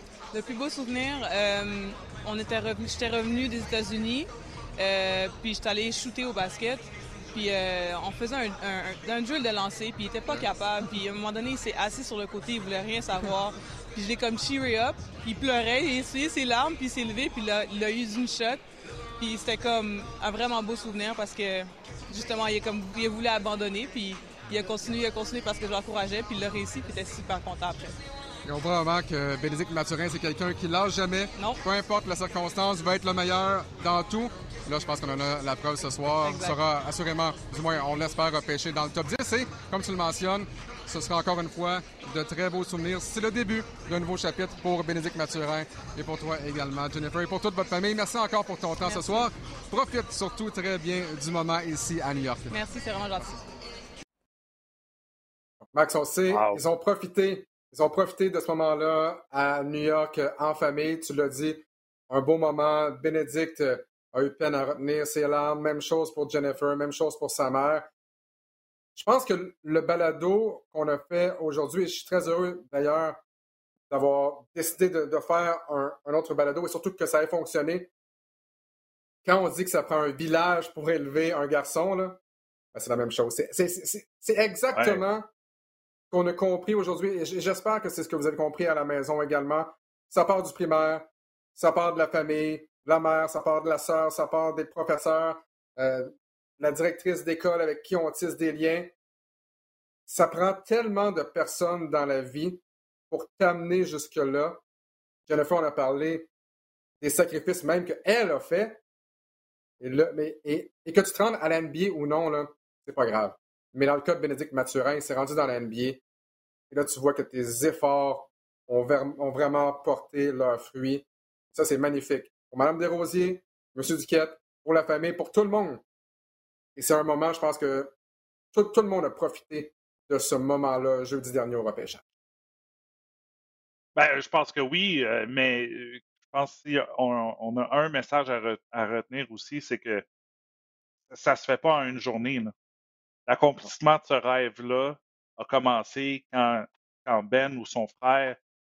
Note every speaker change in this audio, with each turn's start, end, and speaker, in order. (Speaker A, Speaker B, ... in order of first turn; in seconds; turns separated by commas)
Speaker A: 0.3-18.6, Speaker A: 19.2-28.0, Speaker B: 28.4-52.6, Speaker A: 36.2-36.6, Speaker A: 48.8-49.3, Speaker A: 52.5-53.4, Speaker B: 55.7-67.9, Speaker C: 56.3-56.6, Speaker B: 69.0-73.2, Speaker B: 73.9-77.9, Speaker B: 79.2-82.2, Speaker B: 82.7-85.3, Speaker C: 84.7-85.0, Speaker B: 86.1-98.9, Speaker B: 100.1-104.6, Speaker B: 105.3-106.3, Speaker B: 107.0-108.8, Speaker B: 109.8-116.0, Speaker B: 116.7-125.8, Speaker B: 126.8-127.9, Speaker B: 128.5-132.0, Speaker C: 134.0-140.1, Speaker C: 141.1-142.5, Speaker C: 143.3-148.4